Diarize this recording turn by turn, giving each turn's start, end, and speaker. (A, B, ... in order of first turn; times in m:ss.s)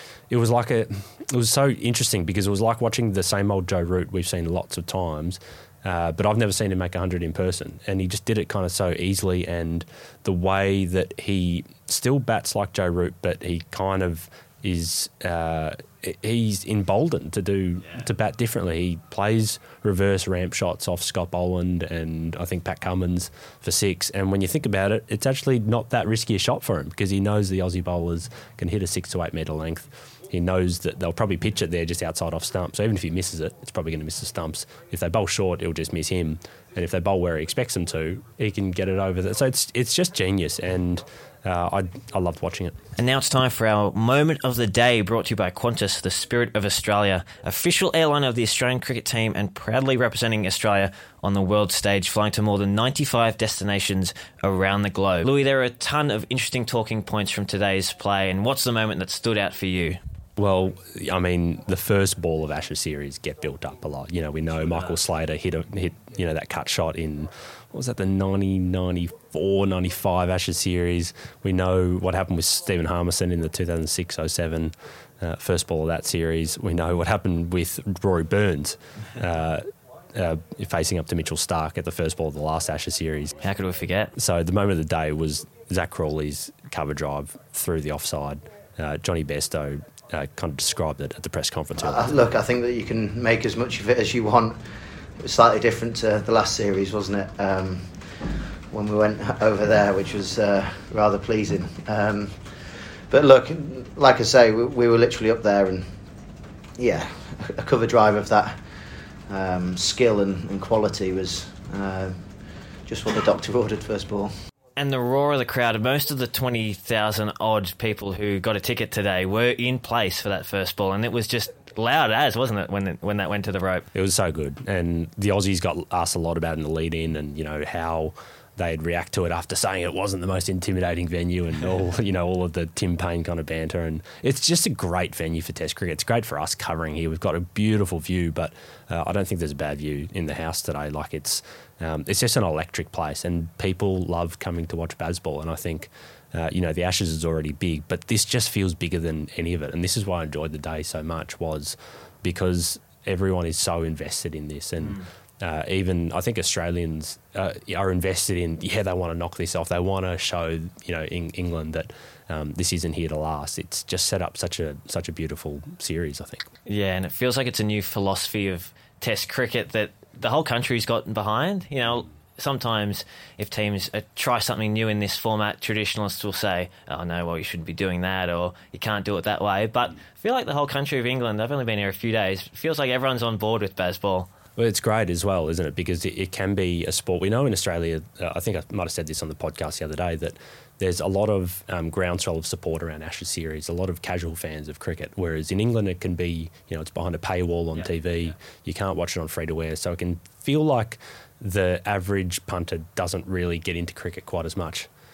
0:00.3-0:42.8 A
0:43.0-1:00.0 B
1:00.4-1:19.6 A
1:20.2-1:23.4 A
1:23.4-1:24.1 B
1:24.2-1:32.2 A
1:31.8-1:34.6 C
1:35.2-1:46.0 C
1:46.8-1:52.3 C
1:52.8-1:54.3 C
1:54.8-2:03.9 B
2:03.9-2:46.5 A
2:46.7-3:04.3 B
3:04.6-3:24.9 A